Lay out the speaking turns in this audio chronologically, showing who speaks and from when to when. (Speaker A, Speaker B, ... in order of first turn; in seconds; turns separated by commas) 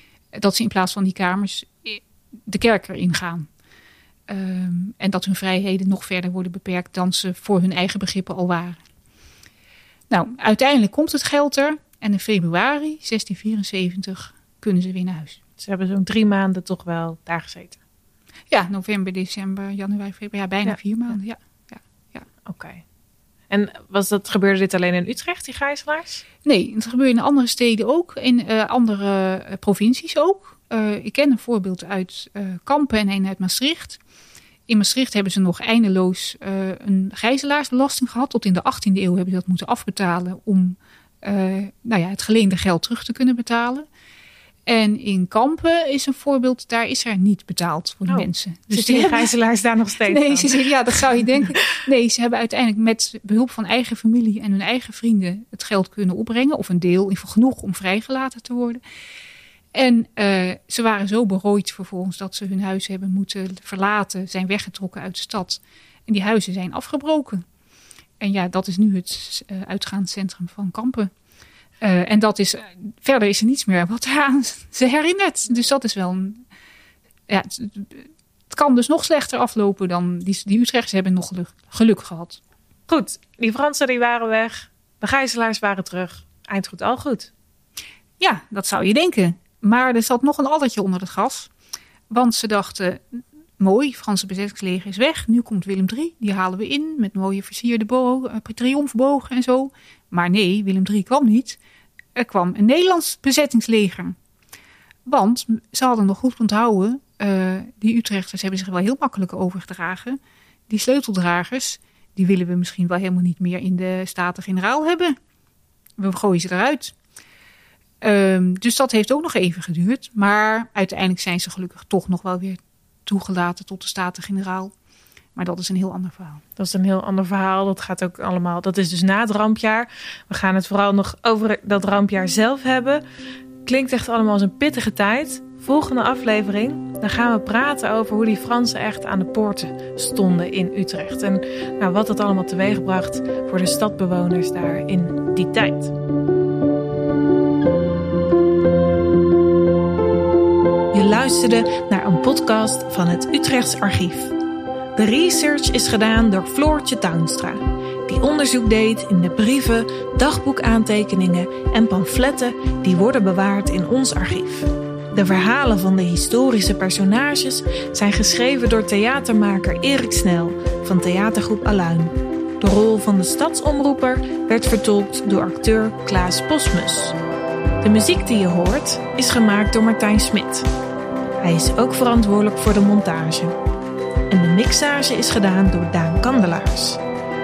Speaker A: 0.3-3.5, Speaker A: 4.3-8.8, Speaker A: 10.1-15.4, Speaker B: 15.6-17.8, Speaker A: 18.5-22.2, Speaker B: 22.4-22.8, Speaker B: 23.5-26.2, Speaker A: 26.4-34.0, Speaker A: 34.7-43.9, Speaker A: 44.7-49.3, Speaker B: 48.1-50.7, Speaker A: 50.0-58.8, Speaker A: 59.7-67.4, Speaker A: 68.2-71.1, Speaker A: 71.8-76.4, Speaker A: 77.3-82.4, Speaker B: 82.9-87.3, Speaker A: 88.2-91.5, Speaker A: 92.1-101.6, Speaker A: 102.2-104.2, Speaker A: 105.1-115.2, Speaker A: 116.0-116.9, Speaker A: 118.0-124.7, Speaker A: 125.3-126.4, Speaker B: 126.6-133.0, Speaker B: 133.6-145.9, Speaker B: 150.9-154.3, Speaker B: 154.9-177.2, Speaker B: 177.8-180.7, Speaker B: 181.4-183.6, Speaker B: 184.3-187.0